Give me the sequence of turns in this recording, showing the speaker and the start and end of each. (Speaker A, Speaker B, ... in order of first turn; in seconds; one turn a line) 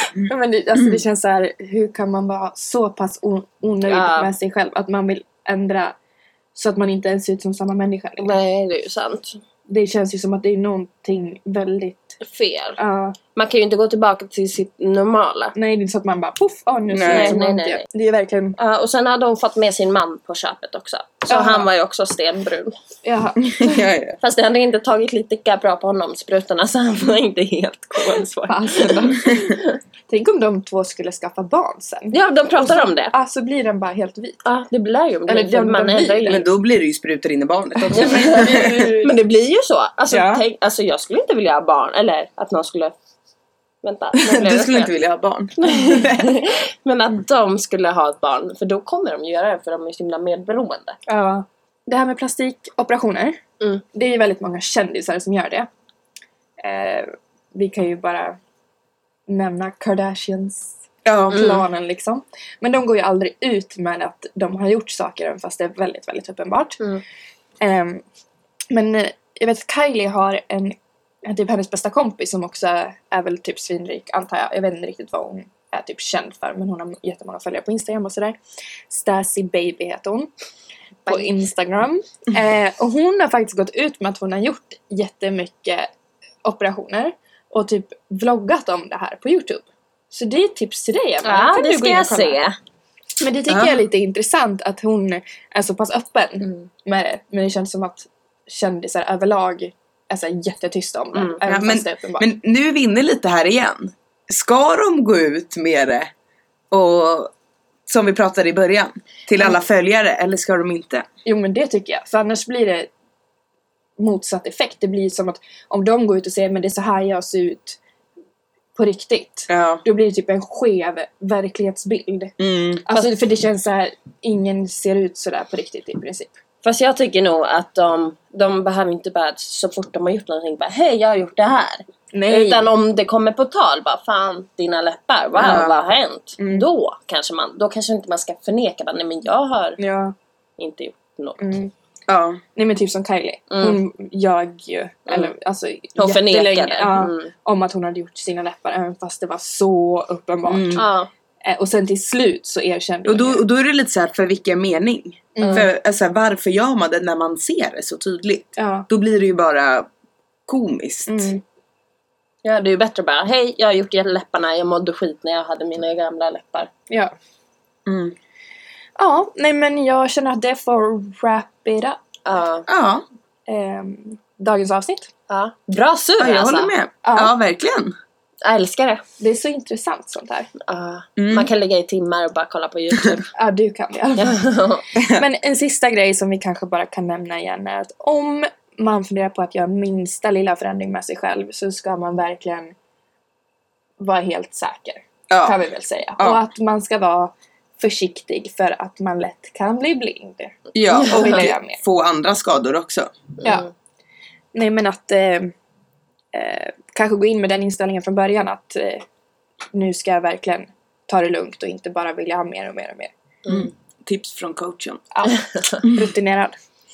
Speaker A: 0.2-5.9
Speaker B: 3.8-4.3
Speaker A: 6.5-8.3
Speaker B: 8.2-9.4
Speaker A: 9.7-12.2
Speaker B: 12.2-12.8
Speaker A: 12.8-13.2
Speaker B: 13.3-15.5
Speaker A: 15.5-18.6
Speaker C: 16.9-17.4
Speaker B: 17.0-17.9
Speaker B: 18.6-22.7
Speaker A: 21.3-21.7
Speaker A: 23.0-23.9
Speaker C: 23.4-24.1
Speaker B: 24.2-29.7
Speaker A: 28.4-34.4
Speaker B: 32.1-33.1
Speaker B: 34.4-36.4
Speaker A: 35.3-36.4
Speaker C: 36.2-38.9
Speaker A: 37.8-39.1
Speaker B: 37.9-42.9
Speaker A: 40.1-40.4
Speaker B: 43.8-44.9
Speaker C: 44.2-46.4
Speaker B: 45.6-51.0
Speaker A: 51.1-53.4
Speaker A: 53.9-55.7
Speaker A: 56.6-58.4
Speaker A: 59.3-66.8
Speaker C: 61.0-61.6
Speaker B: 61.3-61.6
Speaker A: 67.6-68.0
Speaker A: 68.7-78.4
Speaker A: 78.9-80.3
Speaker A: 81.0-85.9
Speaker A: 86.4-92.4
Speaker B: 91.2-92.5
Speaker A: 93.2-102.3
Speaker C: 93.5-93.8
Speaker B: 101.1-101.4
Speaker C: 101.5-106.1
Speaker C: 106.7-107.3
Speaker C: 107.9-111.0
Speaker A: 111.2-112.9
Speaker A: 114.0-117.8
Speaker A: 118.7-126.3
Speaker C: 119.5-119.8
Speaker C: 122.4-122.8
Speaker B: 126.6-139.8
Speaker A: 132.1-132.7
Speaker C: 135.4-135.7
Speaker A: 136.4-136.7
Speaker A: 139.8-140.1
Speaker B: 140.6-141.4
Speaker A: 141.4-141.7
Speaker C: 142.1-142.4
Speaker A: 142.5-150.9
Speaker B: 143.5-143.8
Speaker B: 146.0-147.3
Speaker C: 150.5-150.8
Speaker B: 150.7-151.1
Speaker A: 151.4-153.4
Speaker C: 153.0-159.9
Speaker A: 155.3-155.7
Speaker B: 155.4-155.7
Speaker A: 158.6-158.9
Speaker C: 160.5-161.3
Speaker A: 161.1-161.4
Speaker B: 162.4-166.7
Speaker C: 167.8-168.1
Speaker A: 169.0-172.0
Speaker B: 172.2-172.7
Speaker C: 172.7-173.0
Speaker A: 173.5-175.1
Speaker B: 175.3-176.7
Speaker C: 176.2-177.9
Speaker A: 177.0-177.3
Speaker B: 178.4-179.0
Speaker A: 179.2-180.5
Speaker B: 180.6-183.3
Speaker C: 181.2-181.5
Speaker A: 183.3-184.4
Speaker B: 184.2-184.8
Speaker C: 184.9-185.2
Speaker A: 185.0-192.7
Speaker A: 194.0-201.8
Speaker C: 195.3-195.6
Speaker C: 200.7-203.1
Speaker B: 200.9-201.4
Speaker B: 203.4-203.7
Speaker A: 204.5-205.5
Speaker A: 206.3-209.0
Speaker A: 209.7-213.1
Speaker C: 213.5-215.0
Speaker A: 215.1-216.5
Speaker B: 215.2-215.8
Speaker C: 215.9-216.1